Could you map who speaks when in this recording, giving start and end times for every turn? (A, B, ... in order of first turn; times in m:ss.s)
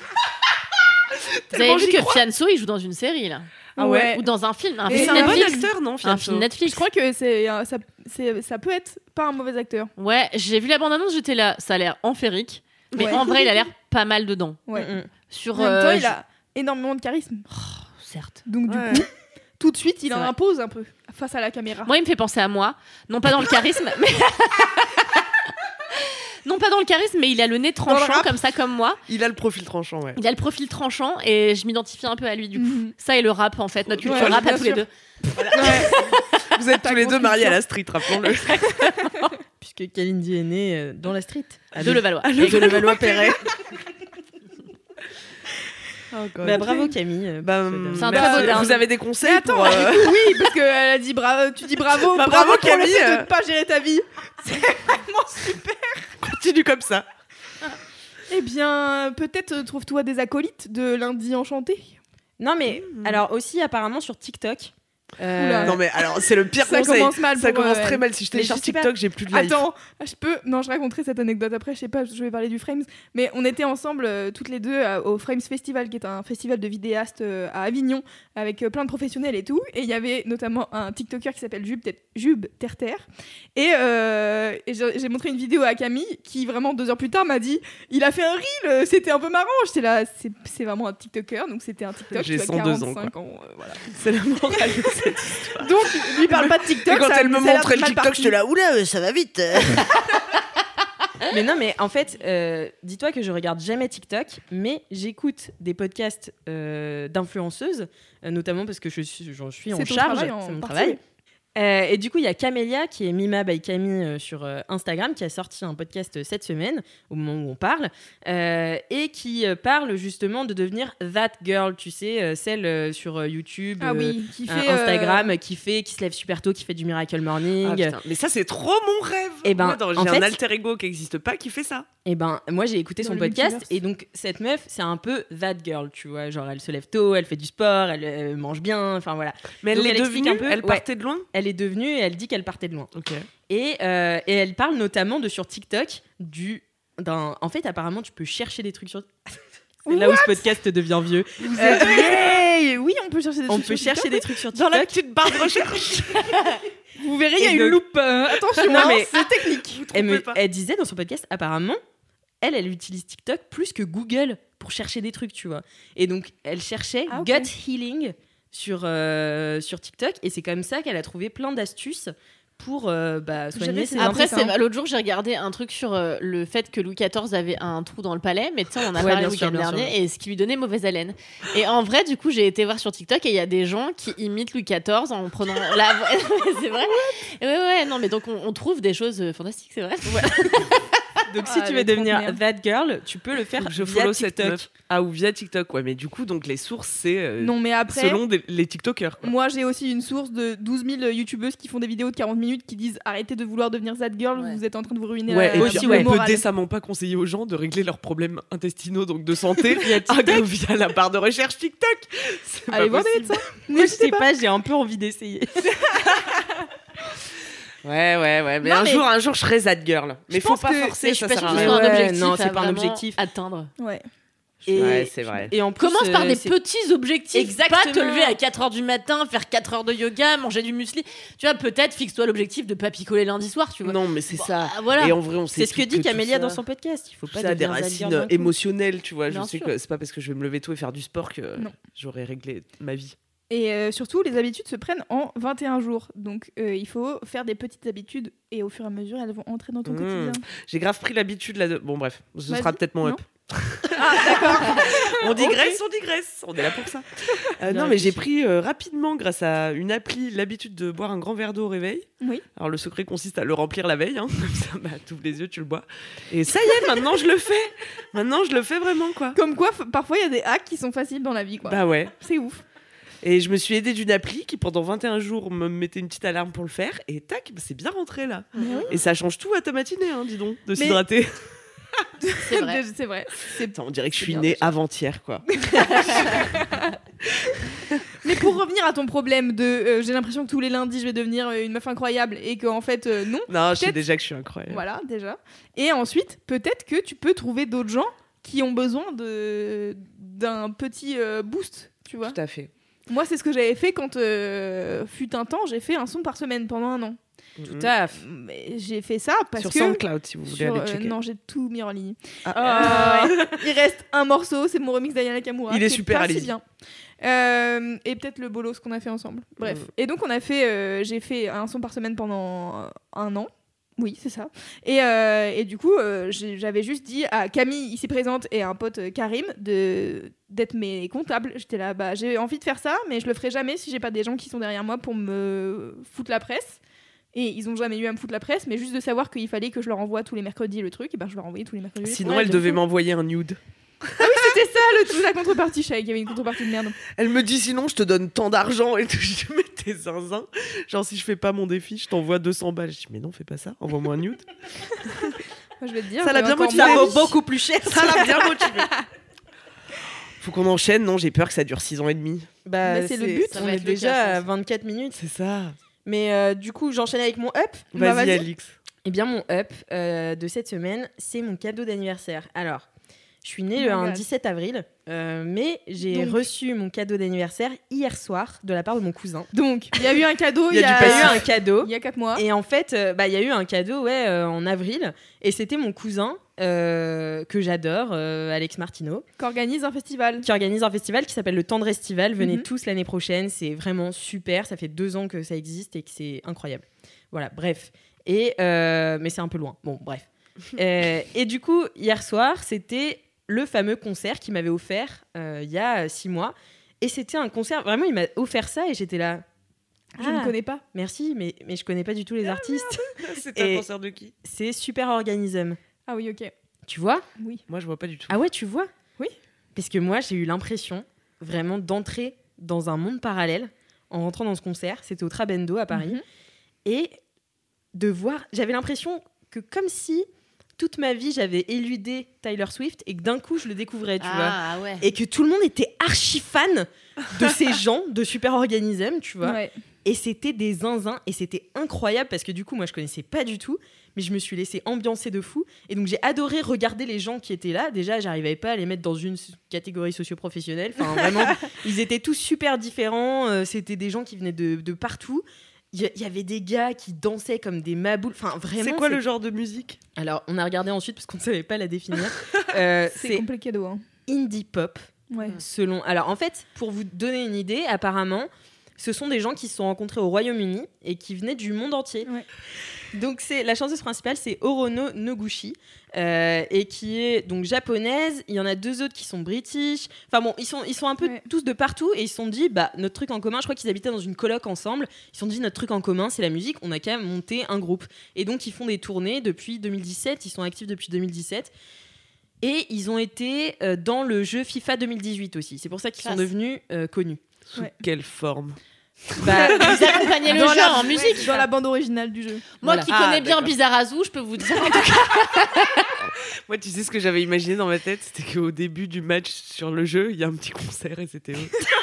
0:01.1-0:02.2 A
0:01.5-0:03.5 B
0:03.8-0:04.1 A
0:03.8-0:04.2 C
0:04.1-0:06.8 B
0:04.9-0:05.7 C
0:04.9-0:06.6 A
0:06.6-0:09.9 C
0:10.0-0:16.1 B
0:12.9-0:13.2 A
0:13.0-0:13.6 C
0:14.8-0:15.1 D
0:15.6-0:17.5 C
0:17.5-0:18.4 B
0:18.5-0:21.9 C
0:18.7-0:19.1 A
0:21.9-0:25.2 B
0:25.9-0:29.0 B
0:27.9-0:28.3 C
0:29.1-0:30.2 A
0:30.2-0:36.4 B
0:32.6-0:32.9 C
0:34.0-0:34.6 A
0:34.0-0:34.8 C
0:35.5-0:36.2 C
0:35.6-0:36.0 A
0:36.5-0:38.7 A
0:36.8-0:37.6 C
0:38.3-0:39.3 B
0:39.6-0:43.4 D
0:41.8-0:43.0 B
0:41.9-0:43.4 A
0:46.1-0:46.8 A
0:46.4-0:48.7 D
0:46.6-0:46.9 C
0:47.4-0:50.4 A
0:48.0-0:48.8 B
0:48.1-0:56.1 C
0:51.9-0:53.3 A
0:56.2-0:57.1 A
0:58.3-1:02.0 C
1:02.4-1:05.8 D
1:02.7-1:03.2 A
1:05.3-1:05.8 C
1:05.6-1:09.6 A
1:06.6-1:08.0 C
1:08.3-1:08.9 D
1:09.3-1:33.8 C
1:32.1-1:33.1 A
1:33.8-1:39.9 A
1:35.6-1:38.4 C
1:41.3-1:51.0 D
1:49.7-1:51.0 C
1:51.6-2:08.0 D
2:03.8-2:05.3 C
2:07.6-2:11.9 A
2:09.4-2:10.4 D
2:12.0-2:22.9 D
2:13.0-2:13.7 C
2:19.6-2:21.3 A
2:22.9-2:23.3 A
2:23.5-2:29.1 D
2:29.9-2:30.5 C
2:29.9-2:32.1 D
2:31.4-2:32.4 A
2:31.5-2:34.3 C
2:33.5-2:35.0 D
2:34.5-2:36.6 A
2:37.0-2:39.8 C
2:37.4-2:37.8 D
2:38.5-2:40.4 A
2:38.6-2:39.2 D
2:39.9-2:41.8 D
2:42.4-2:54.4 D
2:47.1-2:47.5 C
2:53.6-2:54.5 C
2:54.0-3:10.9 B
2:59.0-2:59.9 D
3:10.1-3:10.6 D
3:11.3-3:14.7 D
3:11.4-3:12.4 C
3:13.6-3:19.3 A
3:17.4-3:18.2 C
3:19.2-3:26.4 C
3:25.3-3:33.5 A
3:25.6-3:26.1 D
3:32.7-3:34.3 C
3:33.7-3:35.8 D
3:37.8-3:41.8 A
3:38.7-3:39.0 B
3:40.3-3:40.9 C
3:41.0-3:43.7 B
3:41.5-3:43.2 D
3:43.8-3:44.0 C
3:44.6-3:46.6 D
3:44.7-3:45.5 A
3:45.8-3:55.2 B
3:47.3-3:48.4 D
3:53.8-3:56.6 A
3:55.5-3:58.5 D
3:57.3-4:03.2 A
3:59.3-3:59.7 B
4:03.5-4:10.4 C
4:09.8-4:29.4 A
4:12.5-4:13.2 C
4:13.9-4:15.8 C
4:17.7-4:18.2 D
4:22.2-4:22.4 C
4:29.4-4:32.6 C
4:31.6-4:32.2 A
4:33.2-4:41.4 A
4:38.6-4:38.9 B
4:38.6-4:39.0 C
4:40.8-4:41.0 C
4:42.2-4:44.7 C
4:42.4-4:42.8 B
4:43.7-4:46.5 A
4:45.5-4:47.0 C
4:47.9-4:48.3 A
4:48.2-4:54.0 C
4:53.5-4:54.8 A
4:54.7-5:02.4 C
5:02.2-5:02.7 A
5:03.1-5:07.2 C
5:07.6-5:07.9 A
5:07.7-5:08.2 D
5:08.2-5:16.6 C
5:09.6-5:11.2 A
5:12.5-5:13.6 A
5:12.8-5:13.1 D
5:15.7-5:16.5 A
5:17.2-5:36.8 C
5:37.3-5:42.8 C
5:42.0-5:44.4 A
5:44.2-5:47.0 C
5:47.1-5:54.5 A
5:55.8-5:57.4 C
5:56.2-5:57.2 A
5:56.7-5:58.4 D
5:57.8-5:58.9 A
6:00.4-6:02.5 A
6:02.6-6:05.2 D
6:02.8-6:03.7 C
6:03.5-6:04.4 B
6:05.2-6:05.8 A
6:06.0-6:07.9 D
6:07.9-6:08.8 A
6:08.0-6:08.5 C
6:09.0-6:12.9 D
6:13.4-6:19.5 D
6:13.8-6:14.2 C
6:16.0-6:16.4 C
6:19.5-6:22.4 C
6:20.7-6:21.4 A
6:20.7-6:29.2 D
6:29.4-6:30.5 C
6:30.4-6:49.4 D
6:32.4-6:32.7 C
6:50.2-6:50.8 C
6:50.2-6:53.0 D
6:52.5-6:54.3 A
6:53.6-6:53.9 D
6:54.4-6:55.8 D
6:56.1-6:56.5 C
6:56.9-6:57.2 D
6:57.7-6:58.4 A
6:58.3-6:58.9 D
6:59.8-7:06.2 D
7:05.9-7:06.2 C
7:06.8-7:07.2 D
7:08.0-7:10.3 D
7:10.8-7:39.2 D
7:14.2-7:15.0 B
7:19.4-7:19.7 C
7:38.8-7:40.0 A
7:40.2-7:43.5 D
7:43.2-7:44.0 C
7:44.3-7:52.3 D
7:45.3-7:45.6 C
7:53.1-8:11.7 D
8:12.6-8:17.4 D
8:16.2-8:16.5 B
8:17.7-8:18.8 A
8:19.3-8:21.4 A
8:19.4-8:20.0 D
8:19.5-8:22.7 C
8:19.8-8:21.7 B
8:22.8-8:26.2 B
8:22.8-8:23.1 D
8:23.1-8:23.7 A
8:26.2-8:31.8 A